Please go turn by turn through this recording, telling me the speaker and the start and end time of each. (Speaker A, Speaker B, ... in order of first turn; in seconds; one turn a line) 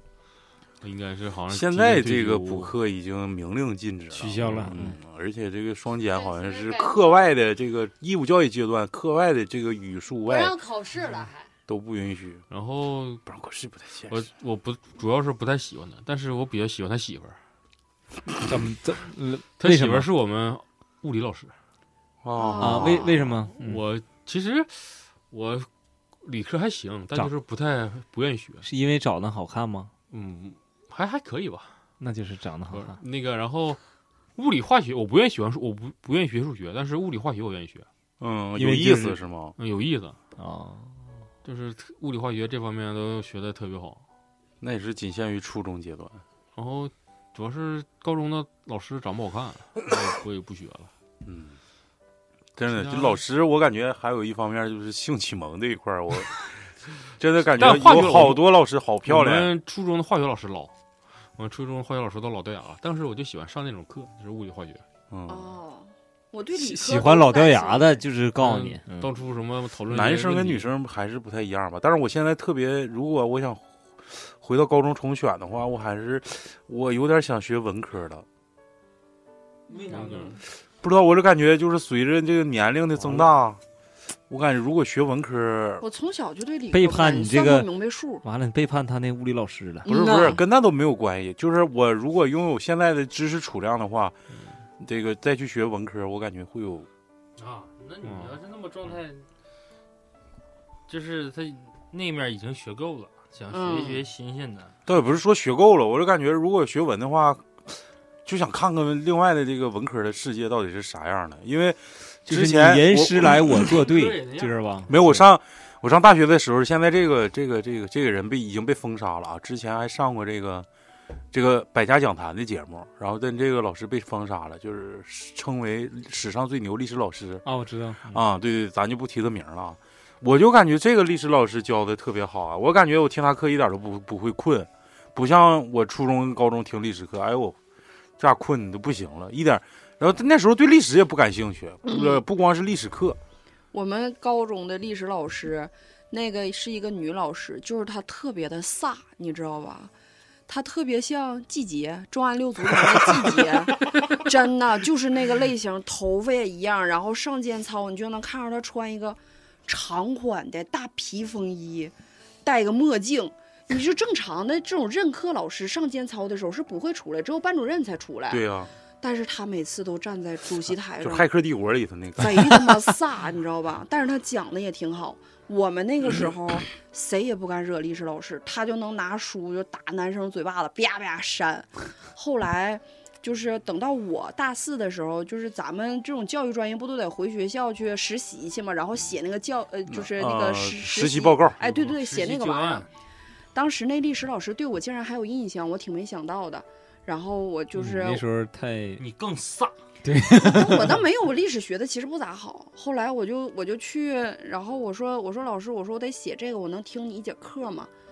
Speaker A: 0.8-2.7
Speaker B: 1.5-10.6
Speaker C: 4.1-5.0
Speaker A: 4.4-4.8
Speaker D: 6.1-7.3
Speaker D: 10.3-11.5
Speaker B: 11.7-12.4
Speaker A: 12.5-13.2
Speaker B: 13.3-14.2
Speaker A: 14.1-17.4
Speaker C: 18.4-20.1
Speaker A: 19.6-21.5
Speaker B: 22.2-23.1
Speaker E: 22.4-23.1
Speaker C: 22.6-23.8
Speaker A: 22.9-25.7
Speaker A: 26.2-28.7
Speaker C: 28.6-29.9
Speaker A: 30.1-31.8
Speaker C: 32.0-33.0
Speaker A: 32.7-33.8
Speaker A: 34.4-37.9
Speaker B: 38.2-39.5
Speaker C: 38.5-39.2
Speaker A: 39.6-40.1
Speaker C: 40.4-40.9
Speaker A: 41.4-44.0
Speaker B: 44.6-46.2
Speaker A: 46.5-50.9
Speaker B: 51.2-51.6
Speaker B: 52.5-56.4
Speaker A: 52.7-53.2
Speaker B: 57.2-59.5
Speaker A: 57.5-58.5
Speaker A: 59.0-60.7
Speaker A: 61.4-64.8
Speaker B: 65.1-65.5
Speaker E: 65.3-68.0
Speaker C: 66.5-69.1
Speaker A: 68.3-70.7
Speaker B: 69.9-78.2
Speaker F: 79.7-80.4
Speaker A: 79.9-80.3
Speaker B: 80.8-83.6
Speaker B: 84.3-85.8
Speaker E: 85.8-88.2
Speaker C: 86.7-90.3
Speaker E: 89.8-90.4
Speaker B: 89.9-94.1
Speaker B: 94.8-96.9
Speaker F: 97.4-99.2
Speaker A: 98.0-98.3
Speaker F: 100.9-104.7
Speaker E: 103.5-104.0
Speaker B: 104.9-113.7
Speaker C: 112.3-115.2
Speaker F: 113.8-114.5
Speaker B: 114.9-120.7
Speaker B: 121.3-127.4
Speaker C: 127.4-128.2
Speaker B: 128.1-137.6
Speaker B: 138.2-143.2
Speaker E: 141.9-142.2
Speaker E: 143.7-149.9
Speaker E: 150.5-161.9
Speaker E: 162.4-168.4
Speaker B: 168.3-168.7
Speaker E: 169.0-171.2
Speaker B: 171.0-172.8
Speaker E: 172.2-192.9
Speaker B: 189.9-191.6
Speaker F: 191.6-192.9
Speaker E: 193.5-198.2
Speaker C: 197.7-199.0
Speaker F: 199.0-199.7
Speaker C: 200.0-201.0
Speaker E: 200.3-207.9